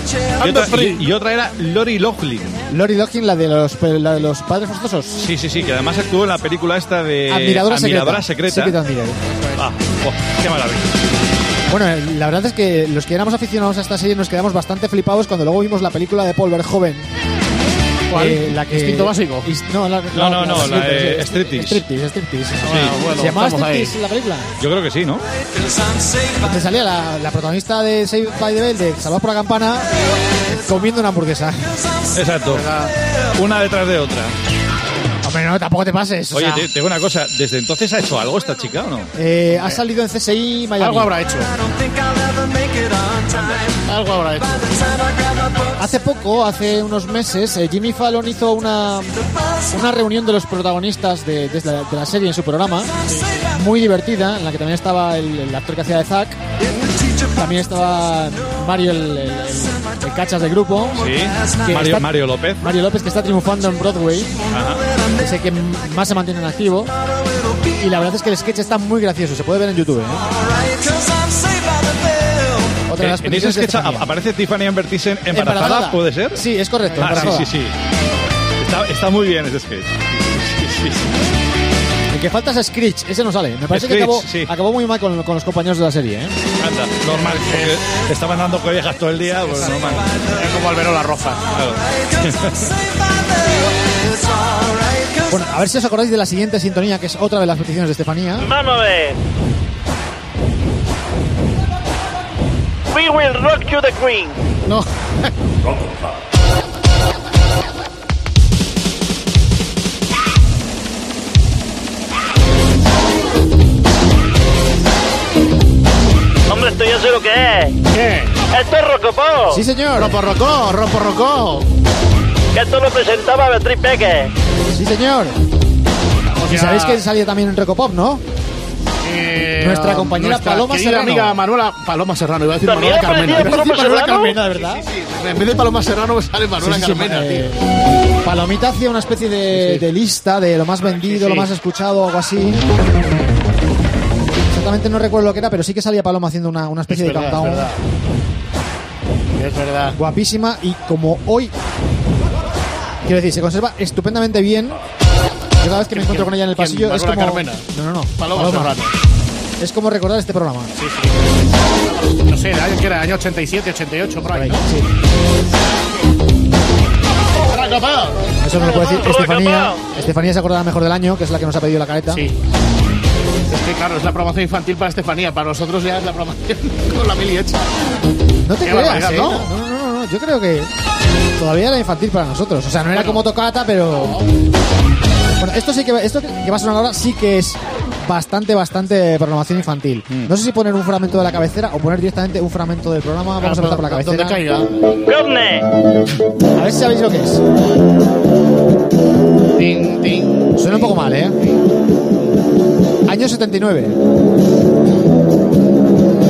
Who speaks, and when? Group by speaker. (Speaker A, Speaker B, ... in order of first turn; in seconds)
Speaker A: 0.4-2.6, 5.2-8.8, 9.6-10.9, 20.1-21.8, 22.7-22.9, 24.6-25.2, 32.1-32.7, 33.3-34.3, 36.3-39.1, 43.3-43.6, 61.0-62.6, 64.5-64.8, 73.0-76.4, 76.9-77.7, 78.6-81.1, 83.7-84.5, 86.6-90.1, 91.5-92.7
Speaker B: 0.4-1.0, 9.3-9.6, 18.1-19.5, 22.7-23.9, 32.5-32.9, 40.8-41.5, 43.9-44.8, 53.1-53.4, 77.0-77.3, 87.1-87.8, 89.5-91.5, 104.7-105.3, 117.9-118.4, 119.9-121.7, 126.4-127.0, 129.0-133.7, 134.5-137.5, 139.5-139.8, 141.0-141.5, 146.9-147.8, 149.4-150.0, 155.9-157.6, 158.2-158.9, 160.8-164.6, 167.3-168.3, 172.1-172.4, 173.5-177.7, 178.6-179.5, 182.9-183.2, 184.0-184.3, 193.4-194.8, 199.6-201.0
Speaker C: 2.7-5.2, 7.3-9.2, 11.7-17.1, 18.1-24.5, 26.4-29.9, 30.4-31.7, 35.2-36.7, 39.1-41.1, 45.8-52.9, 53.5-56.4, 57.3-61.1, 61.6-62.1, 62.6-64.4, 65.2-66.9, 67.7-70.3, 72.9-74.1, 75.3-77.5, 82.1-86.3, 95.3-98.5, 119.5-120.2, 124.7-125.4, 126.5-128.2, 129.6-131.4, 133.3-134.8, 136.6-137.7, 138.2-142.6, 144.5-147.7, 149.9-151.5, 153.0-154.8, 155.6-158.8, 159.6-160.7, 164.3-164.9, 168.4-172.2, 178.4-180.7, 181.4-184.2, 185.4-194.4, 196.5-197.4, 200.5-201.4, 203.1-204.0
Speaker D: 98.4-99.2, 102.9-104.4, 116.5-117.8, 118.5-119.6, 122.5-124.3, 132.6-134.4, 168.8-169.8, 195.1-195.7